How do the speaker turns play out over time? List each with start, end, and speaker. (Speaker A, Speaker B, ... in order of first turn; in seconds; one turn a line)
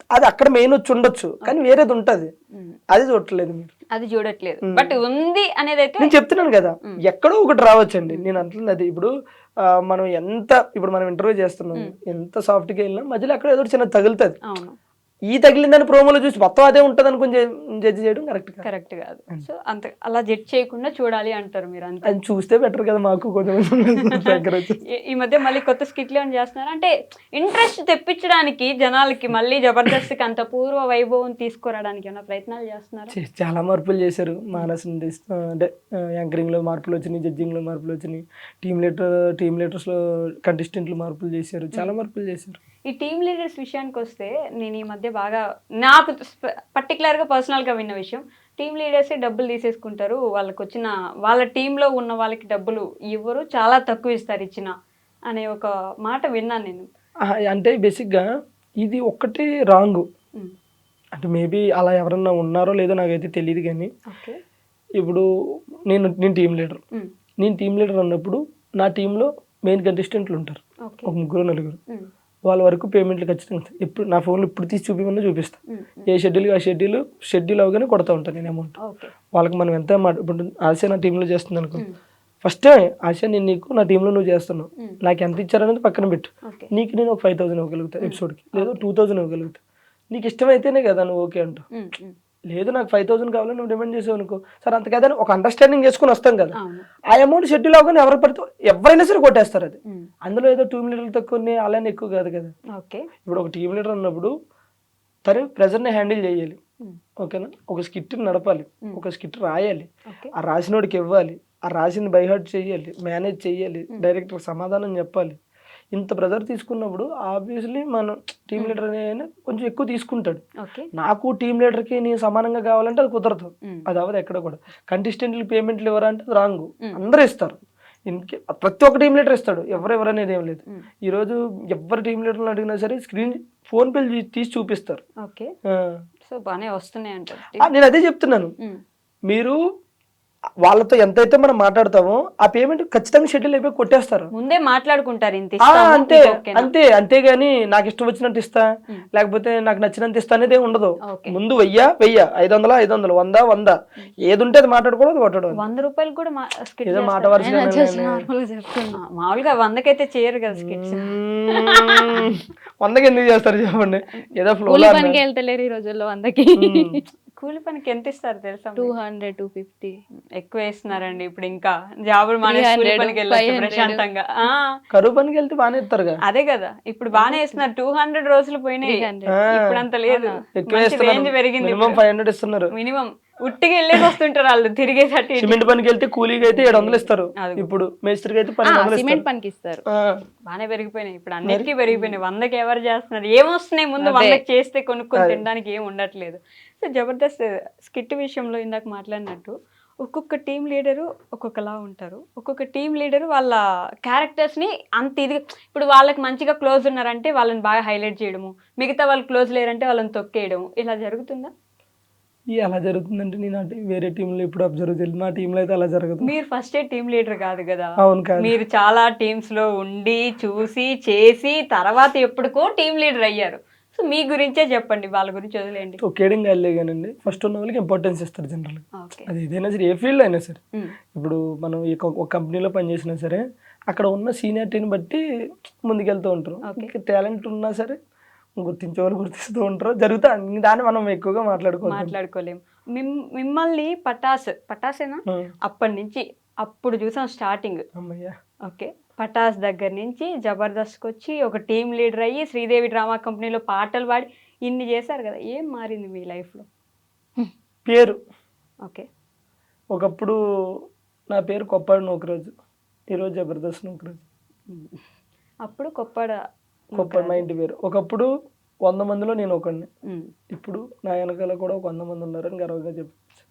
Speaker A: 0.1-2.3
Speaker B: 2.5-2.8
Speaker A: 2.9-3.7
Speaker B: 3.9-6.1
Speaker A: 4.7-5.0
Speaker A: 6.0-9.1
Speaker B: 8.1-8.3
Speaker A: 9.6-14.4
Speaker B: 14.5-14.8
Speaker A: 15.3-18.7
Speaker B: 18.6-22.2
Speaker A: 22.1-24.8
Speaker B: 25.0-33.1
Speaker A: 33.1-42.6
Speaker B: 42.9-54.7
Speaker B: 55.3-56.9
Speaker A: 57.3-58.2
Speaker A: 58.8-60.0
Speaker A: 61.1-63.9
Speaker B: 64.1-64.4
Speaker A: 65.0-65.2
Speaker A: 65.9-66.8
Speaker A: 67.4-71.8
Speaker B: 70.8-71.1
Speaker A: 72.5-75.6
Speaker B: 75.7-76.1
Speaker A: 76.1-78.7
Speaker B: 78.8-79.1
Speaker A: 79.3-81.8
Speaker A: 82.4-89.6
Speaker B: 86.5-86.7
Speaker B: 88.0-88.8
Speaker A: 90.1-91.6
Speaker B: 91.7-92.2
Speaker A: 92.5-96.6
Speaker B: 96.6-96.9
Speaker A: 97.1-102.5
Speaker B: 102.8-103.1
Speaker A: 103.3-104.3
Speaker A: 105.3-106.6
Speaker A: 107.2-115.4
Speaker B: 110.1-110.3
Speaker A: 115.9-120.4
Speaker B: 120.6-120.9
Speaker A: 121.0-135.0
Speaker B: 135.2-135.5
Speaker A: 135.7-136.0
Speaker B: 136.2-137.7
Speaker A: 137.6-138.5
Speaker A: 139.3-139.6
Speaker A: 140.6-144.3
Speaker B: 144.3-146.7
Speaker A: 145.6-155.6
Speaker B: 151.1-151.4
Speaker B: 155.6-157.6
Speaker A: 156.9-158.3
Speaker C: 157.4-159.0
Speaker B: 158.9-162.3
Speaker A: 160.6-165.2
Speaker C: 164.7-166.9
Speaker A: 166.6-167.0
Speaker B: 167.4-168.9
Speaker C: 168.8-170.0
Speaker B: 170.4-174.8
Speaker C: 172.5-174.0
Speaker A: 174.9-176.2
Speaker B: 176.3-182.0
Speaker C: 177.2-177.6
Speaker C: 178.8-179.4
Speaker A: 179.3-179.7
Speaker C: 180.1-180.3
Speaker A: 180.6-182.7
Speaker B: 182.7-185.6
Speaker A: 185.4-189.2
Speaker B: 186.6-187.7
Speaker C: 188.6-189.8
Speaker B: 190.5-211.5
Speaker A: 191.5-191.7
Speaker C: 194.0-194.4
Speaker A: 195.2-195.4
Speaker A: 212.5-216.3
Speaker B: 216.2-226.0
Speaker A: 218.0-218.6
Speaker A: 226.0-230.6
Speaker B: 229.0-229.3
Speaker A: 231.1-235.2
Speaker A: 235.8-238.0
Speaker B: 236.7-236.9
Speaker A: 238.6-242.1
Speaker B: 241.9-247.8
Speaker A: 248.0-248.3
Speaker B: 248.7-256.7
Speaker A: 257.9-258.2
Speaker A: 259.9-262.5
Speaker A: 263.1-264.2
Speaker B: 264.7-265.0
Speaker B: 265.6-266.4
Speaker B: 266.9-267.4
Speaker A: 266.9-268.3
Speaker A: 268.8-269.9
Speaker B: 270.1-270.3
Speaker A: 270.5-273.2